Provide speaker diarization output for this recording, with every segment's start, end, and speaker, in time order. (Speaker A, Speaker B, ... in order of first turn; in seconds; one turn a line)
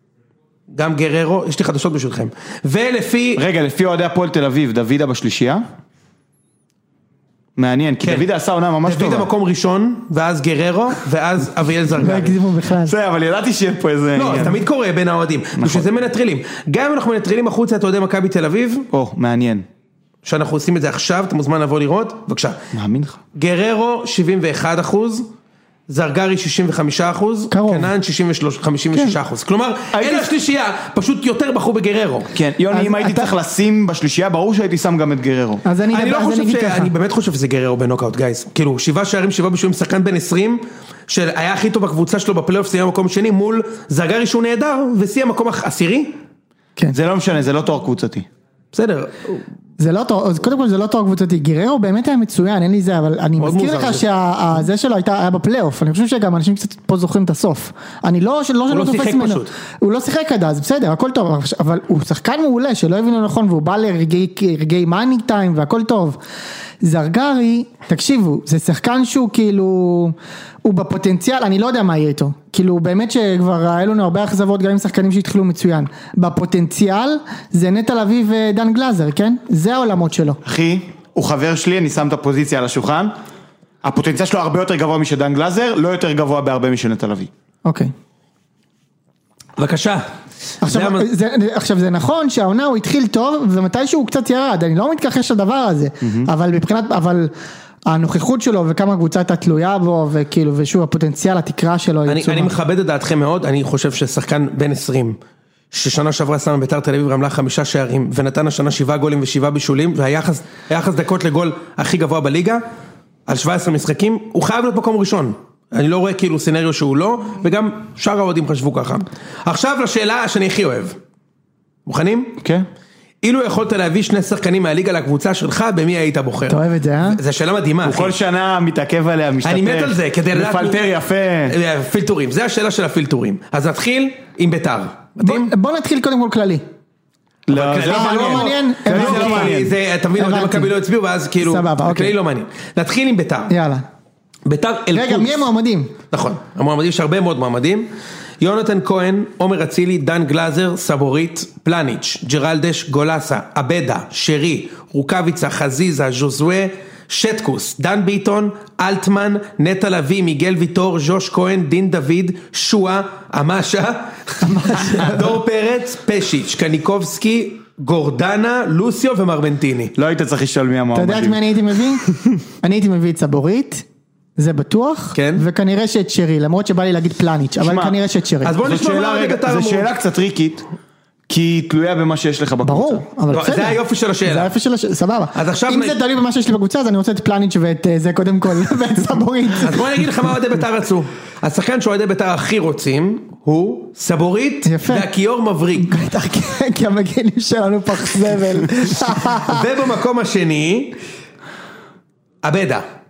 Speaker A: 0.7-3.4
Speaker B: 3.4-5.6
Speaker B: 7.6-9.3
Speaker A: 8.8-12.3
Speaker C: 12.0-12.9
Speaker B: 12.8-14.6
Speaker A: 14.2-18.9
Speaker B: 15.6-15.9
Speaker B: 18.9-19.6
Speaker A: 20.2-22.6
Speaker B: 22.7-23.2
Speaker A: 23.3-25.3
Speaker A: 25.9-32.3
Speaker C: 27.5-27.9
Speaker B: 28.9-29.2
Speaker B: 29.9-30.3
Speaker B: 32.3-35.6
Speaker C: 32.7-33.3
Speaker C: 35.6-36.9
Speaker A: 35.9-46.1
Speaker B: 46.9-48.2
Speaker A: 48.7-49.4
Speaker C: 49.8-66.2
Speaker A: 53.4-54.0
Speaker A: 58.7-59.5
Speaker C: 66.8-80.4
Speaker B: 80.4-83.1
Speaker B: 83.8-87.3
Speaker C: 87.6-87.9
Speaker A: 89.6-90.0
Speaker C: 90.6-97.3
Speaker A: 90.7-91.1
Speaker B: 96.0-96.3
Speaker C: 97.9-102.5
Speaker A: 102.1-105.2
Speaker A: 105.7-112.6
Speaker A: 113.3-121.0
Speaker A: 121.8-122.4
Speaker A: 123.2-128.1
Speaker C: 126.5-127.2
Speaker B: 127.8-131.6
Speaker A: 129.4-130.9
Speaker A: 131.5-135.5
Speaker C: 135.2-136.6
Speaker B: 137.5-139.7
Speaker A: 137.5-143.5
Speaker C: 137.8-140.7
Speaker C: 141.4-142.1
Speaker C: 143.5-143.8
Speaker A: 144.4-145.5
Speaker C: 144.9-145.9
Speaker A: 146.1-147.9
Speaker A: 148.4-169.9
Speaker C: 164.4-165.3
Speaker B: 169.9-171.4
Speaker C: 170.9-172.0
Speaker B: 172.0-172.3
Speaker C: 172.6-173.8
Speaker C: 174.4-178.5
Speaker A: 175.1-175.4
Speaker B: 177.6-177.9
Speaker A: 178.4-179.9
Speaker B: 178.6-180.6
Speaker B: 181.3-183.0
Speaker C: 182.6-189.9
Speaker A: 183.3-184.5
Speaker A: 185.3-186.0
Speaker A: 189.6-195.9
Speaker C: 194.7-195.1
Speaker C: 195.8-199.7
Speaker A: 199.4-201.0
Speaker A: 202.4-202.8